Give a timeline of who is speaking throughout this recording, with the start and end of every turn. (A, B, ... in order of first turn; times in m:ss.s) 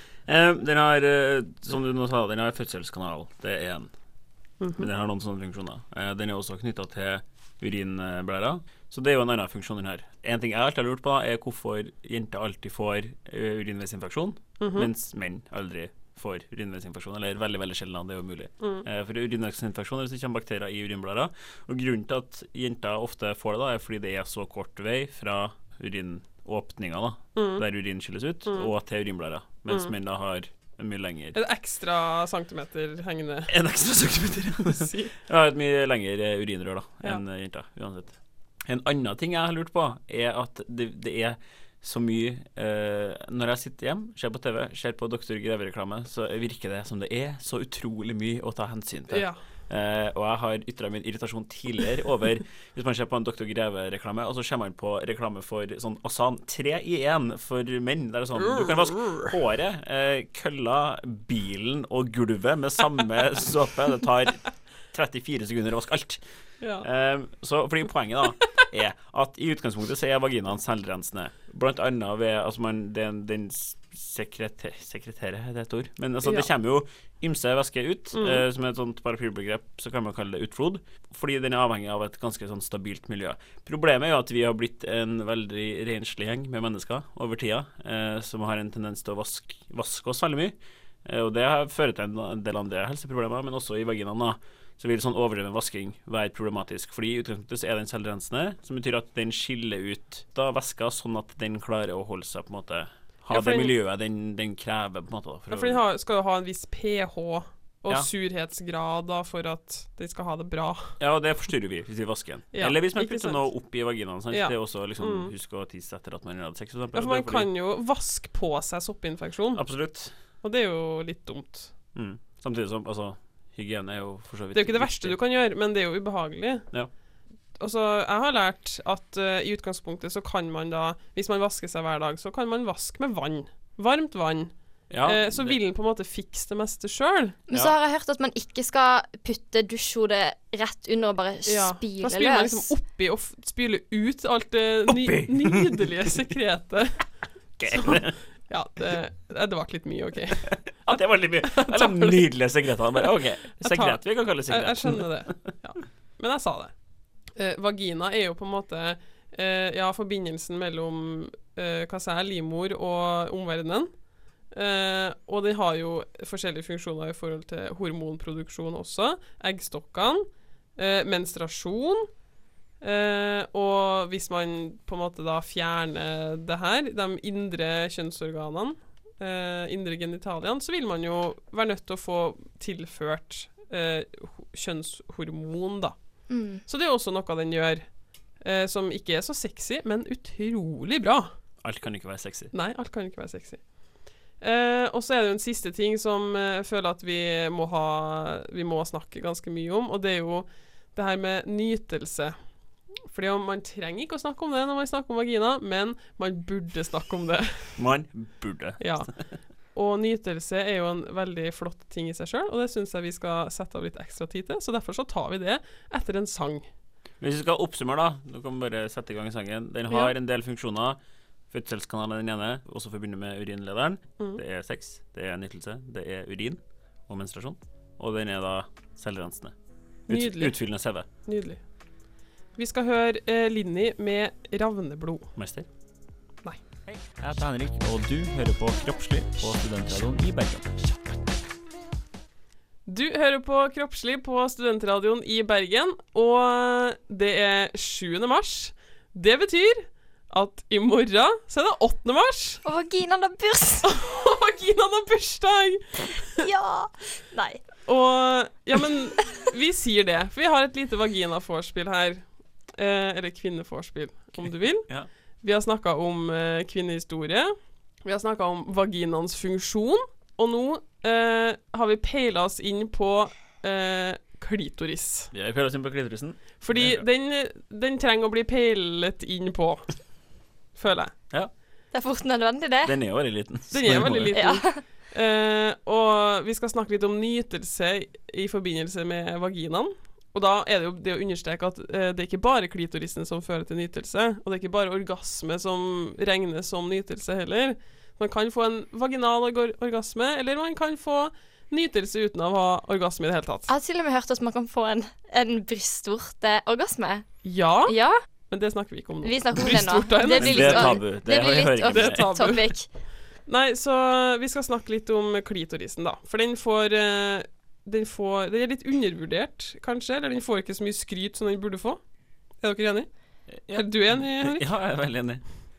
0:00.2-0:03.9 A
0:04.6-0:04.9 B
0:04.8-0:31.4 A
0:14.6-0:14.9 B
0:27.4-0:27.6 B
0:28.5-0:28.7 B
0:29.7-0:29.9 B
0:31.3-0:33.5 B
0:33.5-1:06.2 A
0:34.6-0:35.2 B
0:49.1-0:49.4 B
0:58.4-0:59.3 B
1:06.6-1:06.9 B
1:06.8-1:30.5 A
1:16.2-1:16.5 B
1:18.1-1:18.4 B
1:31.0-1:45.8 A
1:43.3-1:43.7 B
1:45.5-1:50.9 B
1:51.0-1:57.5 A
1:52.5-1:53.4 B
1:54.3-1:55.3 B
1:56.9-1:59.6 B
1:59.5-2:00.1 A
2:00.4-2:01.7 B
2:02.0-2:05.2 A
2:04.5-2:06.7 B
2:07.6-2:14.5 B
2:14.9-2:15.6 A
2:15.0-2:17.4 B
2:17.5-2:22.7 C
2:21.4-2:27.0 B
2:24.9-2:26.1 A
2:27.6-2:28.2 A
2:27.7-2:32.3 B
2:30.4-2:35.3 A
2:33.6-2:36.7 B
2:37.4-2:43.9 B
2:44.5-2:50.2 B
2:50.8-2:52.1 B
2:52.8-3:06.0 B
3:06.3-3:06.6 C
3:06.7-3:07.8 B
3:08.4-3:11.3 B
3:11.6-3:12.5 A
3:12.5-3:13.6 B
3:14.4-3:22.4 B
3:23.1-3:27.8 B
3:27.8-3:28.8 A
3:28.8-3:29.1 B
3:29.7-3:36.6 B
3:37.2-3:41.0 A
3:39.9-3:40.1 B
3:41.5-3:49.5 A
3:50.1-3:50.6 B
3:50.1-3:51.0 A
3:51.2-3:51.6 B
3:52.6-3:55.3 B
3:55.4-3:55.7 A
3:56.9-4:00.8 A
4:02.9-4:12.6 B
4:12.6-4:13.9 C
4:13.8-4:16.4 B
4:16.4-4:17.6 C
4:17.9-4:24.9 B
4:25.4-4:27.5 B
4:28.0-4:35.3 B
4:35.3-4:37.0 A
4:36.6-4:39.9 B
4:40.8-4:41.1 B
4:41.9-4:43.0 C
4:42.8-4:44.4 A
4:43.7-5:03.7 B
4:44.3-4:44.8 C
5:03.7-5:07.2 C
5:07.4-5:07.9 B
5:07.8-5:08.2 C
5:08.5-5:11.0 B
5:09.2-5:12.9 C
5:10.4-5:12.6 A
5:11.8-5:12.7 B
5:13.5-5:22.0 B
5:22.6-5:23.1 B
5:23.5-5:25.4 A
5:23.7-5:24.7 B